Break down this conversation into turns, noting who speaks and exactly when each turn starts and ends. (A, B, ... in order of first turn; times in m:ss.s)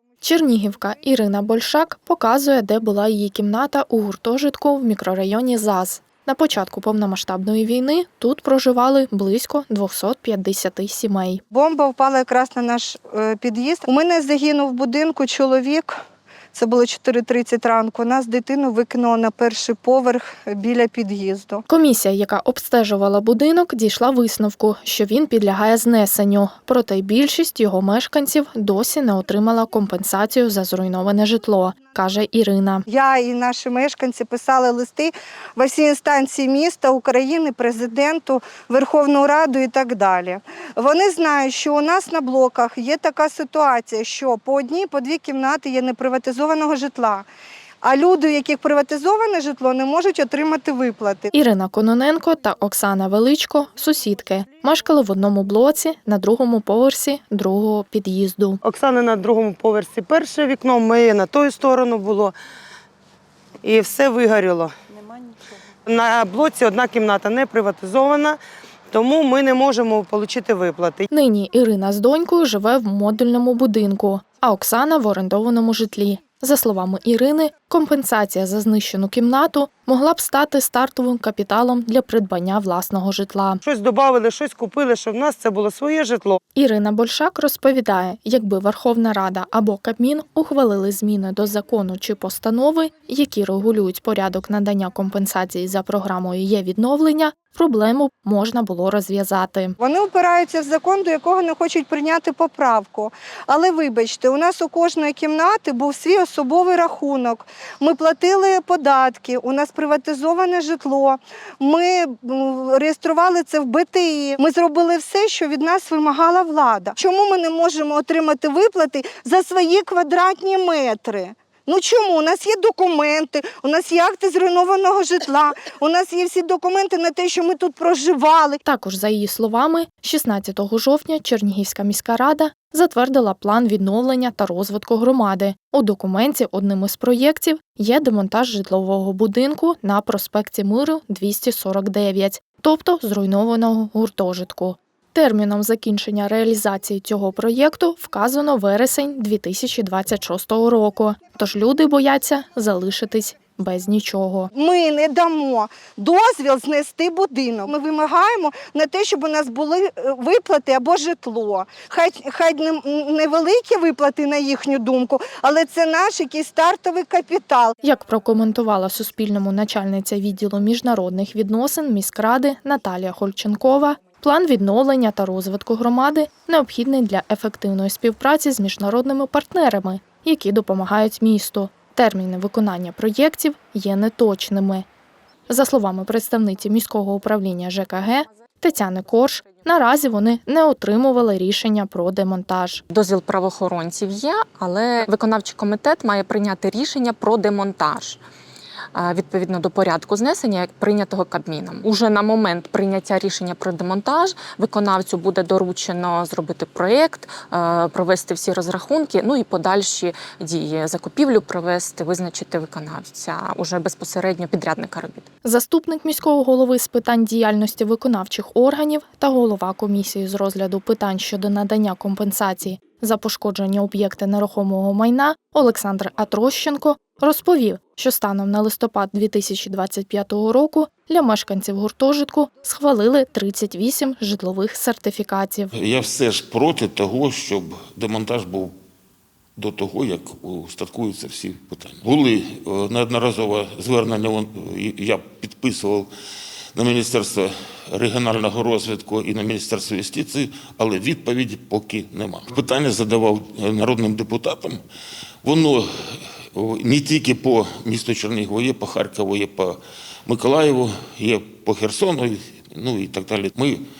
0:00.2-0:11.4 A
0:11.5-0:15.9 B
0:16.5-0:21.6 B
0:21.7-0:32.8 A
0:32.9-0:47.3 B
0:47.8-0:51.3 B
0:51.3-0:58.6 A
0:58.6-1:02.3 C
1:03.6-1:04.7 C
1:05.8-1:08.4 C
1:08.9-1:11.0 C
1:11.1-1:23.6 A
1:23.6-1:26.4 C
1:26.5-1:39.8 A
1:39.8-2:08.6 B
2:08.6-2:34.5 A
2:34.5-2:47.7 B
2:47.8-3:04.8 A
3:05.5-3:12.8 A
3:12.9-3:18.2 D
3:18.9-3:35.2 D
3:35.4-3:55.7 A
3:55.7-3:58.7 E
3:59.6-4:06.1 E
4:06.7-4:14.8 E
4:15.4-4:23.8 E